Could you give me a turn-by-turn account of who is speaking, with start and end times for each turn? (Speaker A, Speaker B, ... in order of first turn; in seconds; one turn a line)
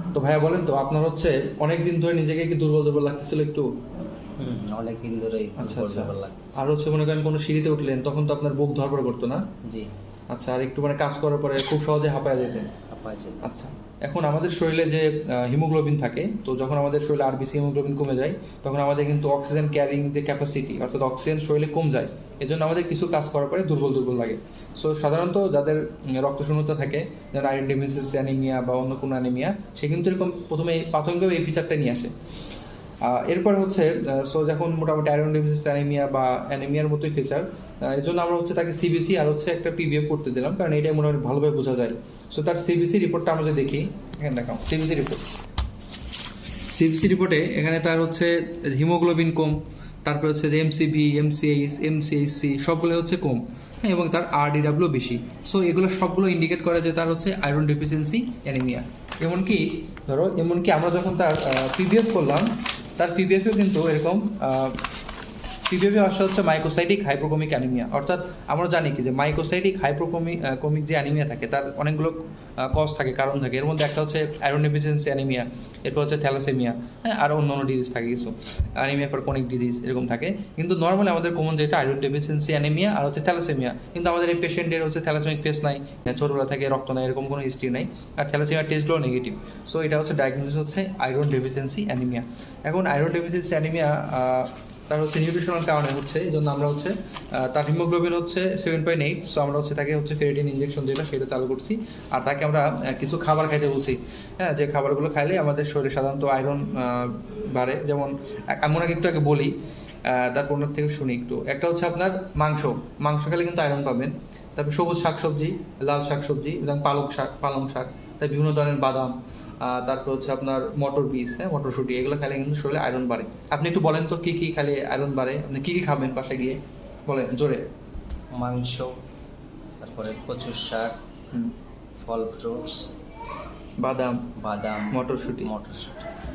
Speaker A: 0.1-3.7
Speaker B: 4.4-6.6
Speaker A: 5.6-9.4
Speaker B: 9.6-9.9
Speaker A: 10.3-12.7
Speaker B: 12.9-13.5
Speaker A: 13.4-32.1
Speaker A: 33.0-45.2
Speaker A: 46.7-64.8
Speaker A: 65.7-109.5
Speaker A: 110.0-127.6
Speaker B: 128.3-129.0
Speaker B: 129.8-130.9
Speaker B: 132.0-132.9
Speaker A: 133.8-134.3
Speaker B: 134.3-136.1
Speaker A: 134.9-135.5